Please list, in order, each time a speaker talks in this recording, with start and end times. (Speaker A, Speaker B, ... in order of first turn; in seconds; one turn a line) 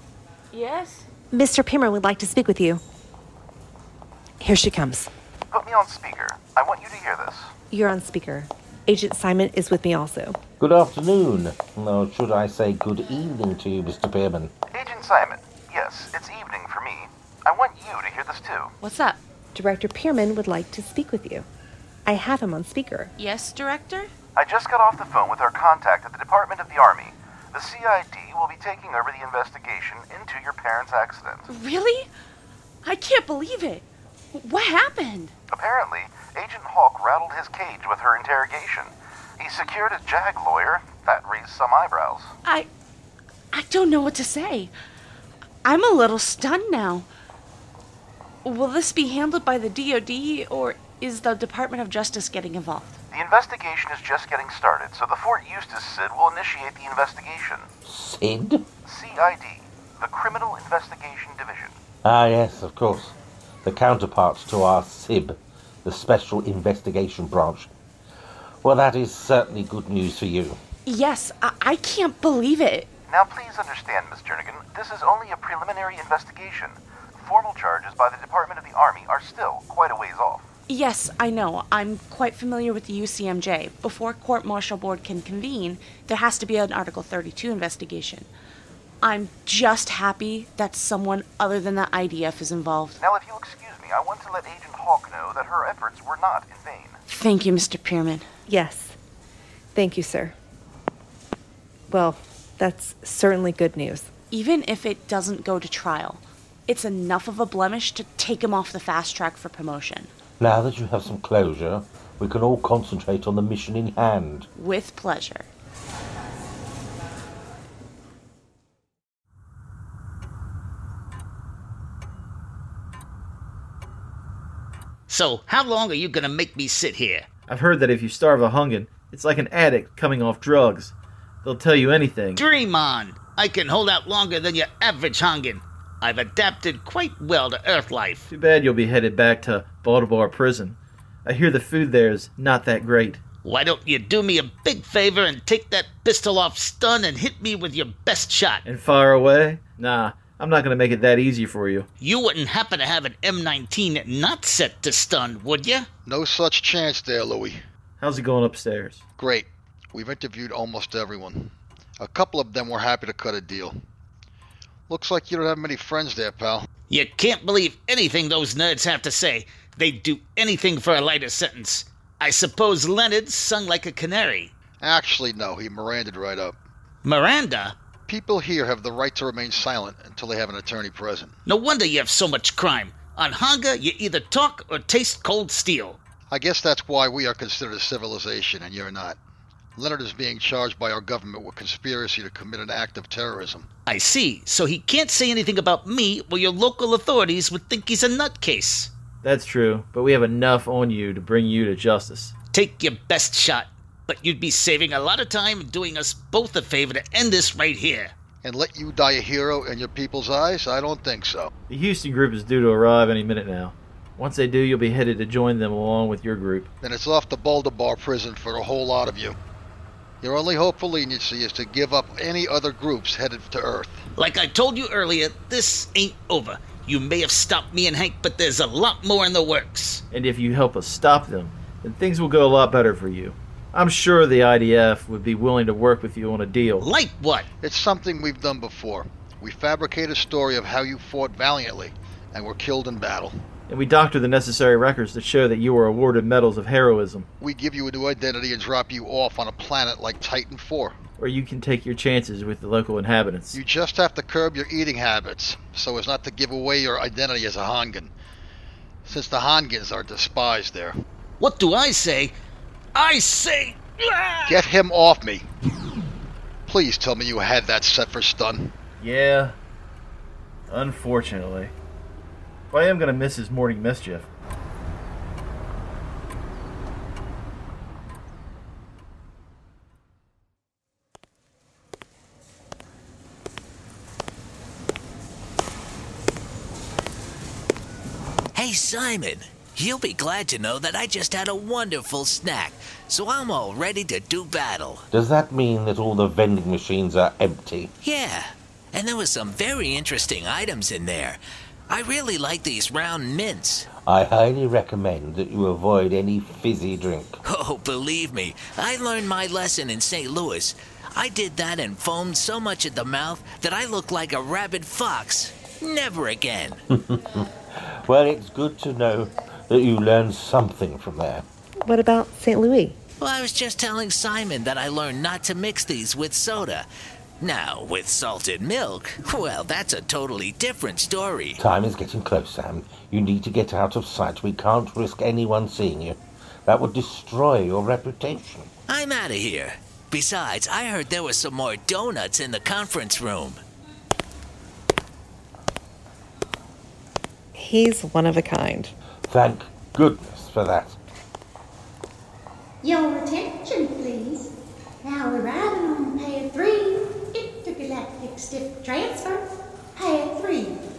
Speaker A: 0.5-1.1
Speaker B: 1.3-2.8
Speaker B: 4.4-5.1
Speaker C: 5.5-7.5
Speaker B: 7.7-10.4
Speaker D: 10.6-14.5
Speaker C: 14.7-18.7
Speaker A: 18.8-19.2
Speaker B: 19.5-21.4
Speaker B: 22.0-23.1
Speaker A: 23.2-24.1
Speaker C: 24.4-31.5
Speaker A: 31.5-32.1
Speaker A: 32.8-35.3
Speaker C: 35.5-42.3
Speaker A: 43.5-44.7
Speaker A: 45.6-47.1
Speaker A: 48.4-53.0
Speaker C: 53.1-57.7
Speaker D: 57.8-58.6
Speaker C: 58.8-61.8
Speaker D: 62.0-67.7
Speaker D: 68.6-70.6
Speaker A: 70.8-72.9
Speaker C: 73.1-80.5
Speaker A: 80.7-88.3
Speaker A: 89.0-93.0
Speaker C: 93.0-97.0
Speaker A: 97.1-98.3
Speaker B: 98.5-99.0
Speaker B: 99.7-100.3
Speaker B: 101.9-104.1
Speaker A: 104.3-110.1
Speaker D: 110.4-114.5
Speaker A: 114.5-115.5
Speaker E: 125.1-127.3
Speaker F: 127.5-132.4
Speaker E: 132.4-138.3
Speaker F: 138.3-143.2
Speaker E: 143.4-148.6
Speaker F: 148.6-151.9
Speaker E: 152.0-155.9
Speaker G: 156.1-157.6
Speaker F: 158.0-159.0
Speaker G: 159.2-163.8
Speaker G: 164.9-166.7
Speaker E: 166.9-174.5
Speaker G: 174.8-176.6
Speaker E: 177.0-177.8
Speaker G: 178.1-181.3
Speaker E: 181.4-186.0
Speaker G: 186.3-189.2
Speaker G: 189.8-193.7
Speaker E: 193.8-198.9
Speaker F: 199.2-202.3
Speaker E: 202.5-208.1
Speaker G: 208.4-211.5
Speaker F: 211.7-216.7
Speaker G: 216.8-219.4
Speaker G: 220.2-224.1
Speaker E: 224.2-230.0
Speaker F: 230.1-236.8
Speaker E: 236.8-237.5
Speaker G: 237.6-243.4
Speaker F: 243.7-247.3
Speaker G: 247.4-251.0
Speaker F: 251.2-253.5
Speaker G: 253.5-258.1
Speaker G: 259.0-261.0
Speaker E: 261.4-262.3
Speaker E: 262.9-264.6
Speaker G: 264.5-265.5
Speaker G: 266.6-268.7
Speaker F: 269.0-269.5
Speaker F: 270.7-271.7
Speaker F: 272.7-274.3
Speaker H: 288.5-295.1
Speaker D: 295.1-297.9
Speaker H: 298.0-303.9
Speaker D: 303.9-307.4
Speaker H: 307.4-316.8
Speaker D: 316.9-321.4
Speaker B: 321.8-323.0
Speaker H: 323.2-326.9
Speaker H: 327.4-331.6
Speaker D: 331.6-338.7
Speaker H: 338.9-343.6
Speaker B: 347.5-348.9
Speaker D: 349.3-351.0
Speaker I: 352.8-354.5
Speaker I: 355.0-359.4
Speaker I: 359.9-360.8